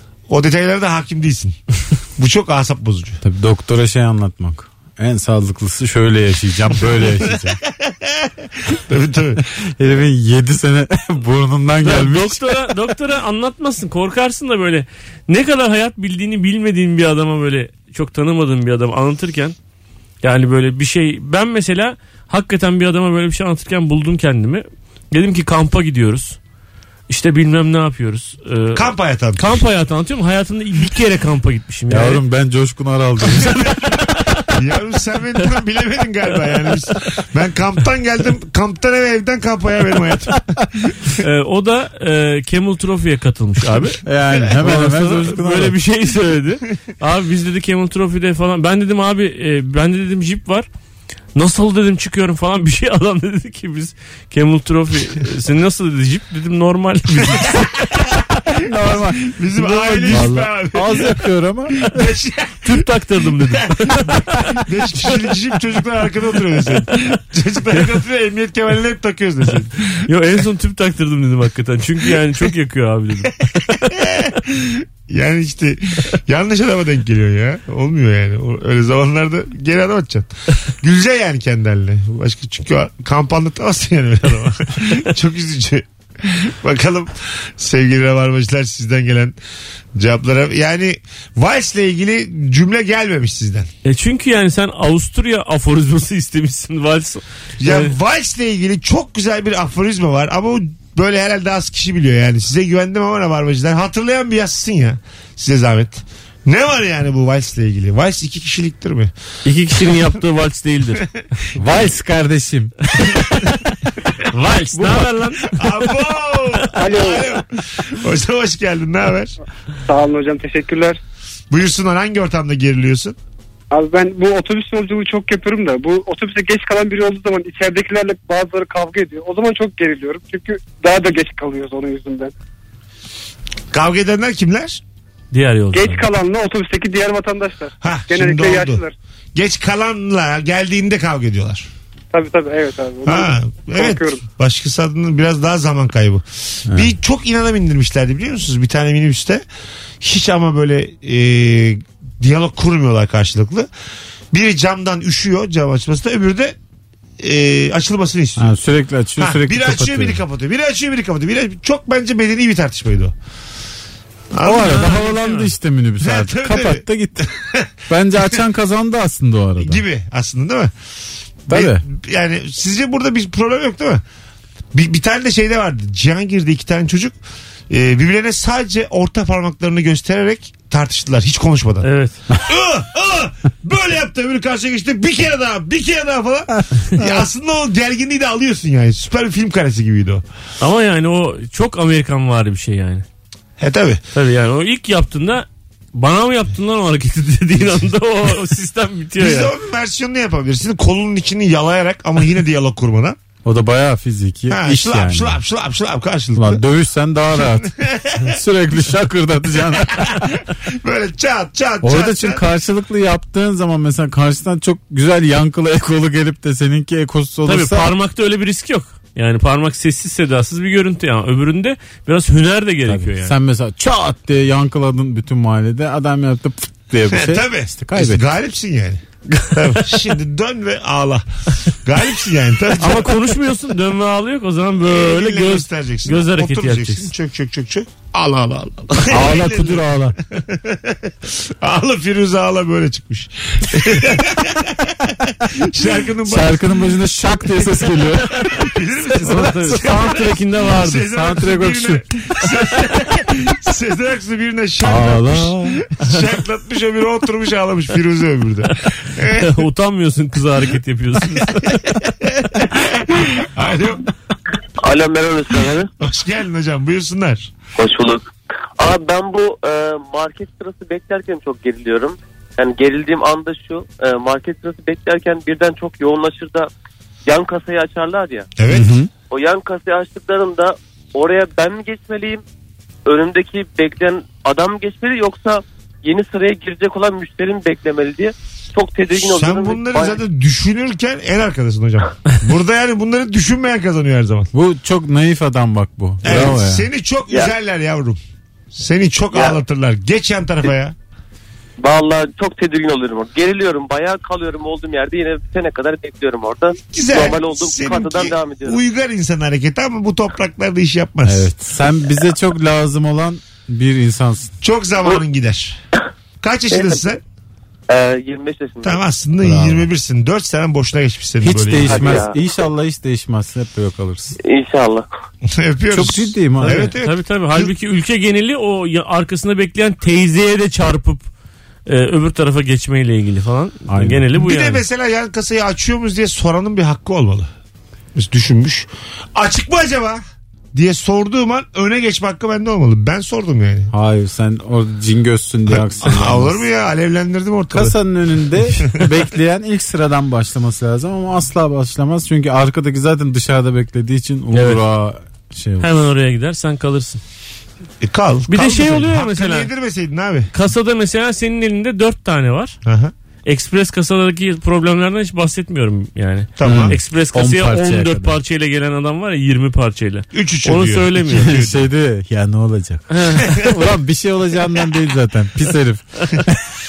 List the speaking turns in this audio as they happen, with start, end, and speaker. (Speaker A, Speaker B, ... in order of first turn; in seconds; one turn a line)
Speaker A: 0.3-1.6
Speaker A: 2.2-3.2
Speaker B: 3.2-7.6
Speaker A: 6.9-9.5
Speaker B: 9.7-12.7
Speaker C: 11.8-19.6
Speaker C: 20.2-26.4
Speaker C: 27.1-32.2
Speaker A: 28.8-29.6
Speaker B: 31.9-33.8
Speaker C: 33.4-34.5
Speaker A: 34.5-41.1
Speaker C: 41.2-50.7
Speaker B: 44.0-45.8
Speaker C: 51.4-57.8
Speaker A: 57.2-57.7
Speaker B: 58.6-62.1
Speaker A: 58.8-61.2
Speaker C: 59.6-60.3
Speaker A: 61.8-62.9
Speaker C: 62.6-64.6
Speaker A: 63.5-70.1
Speaker C: 70.1-73.9
Speaker A: 73.9-89.4
Speaker A: 90.0-93.7
Speaker C: 93.8-98.0
Speaker A: 97.6-109.1
Speaker C: 109.5-111.0
Speaker B: 111.6-112.7
Speaker C: 113.0-113.5
Speaker A: 113.2-113.5
Speaker C: 114.2-115.9
Speaker B: 114.7-115.1
Speaker A: 115.5-119.3
Speaker D: 116.8-117.3
Speaker D: 119.9-121.0
Speaker A: 121.5-123.2
Speaker D: 123.7-132.3
Speaker A: 133.7-134.8
Speaker C: 135.3-136.1
Speaker D: 135.7-139.0
Speaker A: 137.8-138.8
Speaker A: 139.3-141.7
Speaker D: 142.1-144.2
Speaker A: 143.1-149.4
Speaker B: 146.7-146.9
Speaker A: 150.0-153.7
Speaker A: 154.3-156.6
Speaker A: 157.2-158.5
Speaker B: 158.4-160.2
Speaker A: 159.2-163.1
Speaker A: 164.3-165.1
Speaker B: 164.4-167.3
Speaker C: 164.6-165.5
Speaker A: 166.0-167.7
Speaker B: 167.9-169.8
Speaker A: 169.6-170.7
Speaker A: 171.5-174.0
Speaker B: 171.5-171.8
Speaker A: 174.7-177.2
Speaker A: 177.7-190.2
Speaker C: 181.8-182.2
Speaker C: 190.6-193.1
Speaker A: 193.6-194.0
Speaker C: 194.2-199.5
Speaker A: 199.2-203.2
Speaker B: 203.4-205.4
Speaker A: 204.5-206.6
Speaker B: 206.3-210.3
Speaker A: 207.6-208.4
Speaker A: 209.9-212.4
Speaker B: 211.8-217.9
Speaker C: 217.5-223.3
Speaker B: 222.9-228.3
Speaker A: 227.1-233.1
Speaker C: 232.8-237.1
Speaker A: 234.9-246.6
Speaker B: 239.1-240.2
Speaker B: 246.2-248.7
Speaker A: 248.5-259.6
Speaker C: 249.1-251.1
Speaker B: 249.2-250.2
Speaker B: 250.9-252.0
Speaker B: 254.8-255.8
Speaker C: 259.3-261.8
Speaker A: 261.9-264.1
Speaker E: 264.8-265.9
Speaker A: 266.0-267.5
Speaker E: 267.8-268.2
Speaker E: 268.8-276.7
Speaker E: 277.3-278.5
Speaker A: 278.6-279.0
Speaker B: 278.7-279.1
Speaker E: 279.3-282.4
Speaker E: 283.1-290.2
Speaker A: 289.1-294.5
Speaker B: 294.5-296.9
Speaker A: 296.2-298.2
Speaker A: 298.7-300.9
Speaker E: 299.3-299.6
Speaker E: 301.8-308.8
Speaker A: 306.9-311.5
Speaker B: 311.2-314.5
Speaker A: 314.6-315.8
Speaker A: 316.4-317.2
Speaker E: 316.7-317.1
Speaker E: 317.9-319.0
Speaker A: 318.8-322.3
Speaker B: 319.4-319.9
Speaker B: 321.4-324.4
Speaker E: 321.8-322.4
Speaker E: 324.4-325.1
Speaker A: 325.5-327.7
Speaker B: 325.9-326.9
Speaker C: 326.6-331.3
Speaker C: 331.9-334.8
Speaker B: 333.9-334.3
Speaker A: 334.4-337.5
Speaker A: 338.1-340.2
Speaker A: 340.7-343.9
Speaker B: 343.9-346.7
Speaker A: 345.7-348.0
Speaker B: 347.7-356.1
Speaker C: 354.5-354.8
Speaker C: 355.8-357.2
Speaker A: 358.0-360.5
Speaker C: 358.5-359.7
Speaker C: 360.5-362.8
Speaker A: 362.9-363.1
Speaker C: 363.5-371.6
Speaker A: 366.6-367.0
Speaker B: 366.6-368.4
Speaker A: 370.4-371.8
Speaker B: 371.3-376.6
Speaker C: 373.1-373.6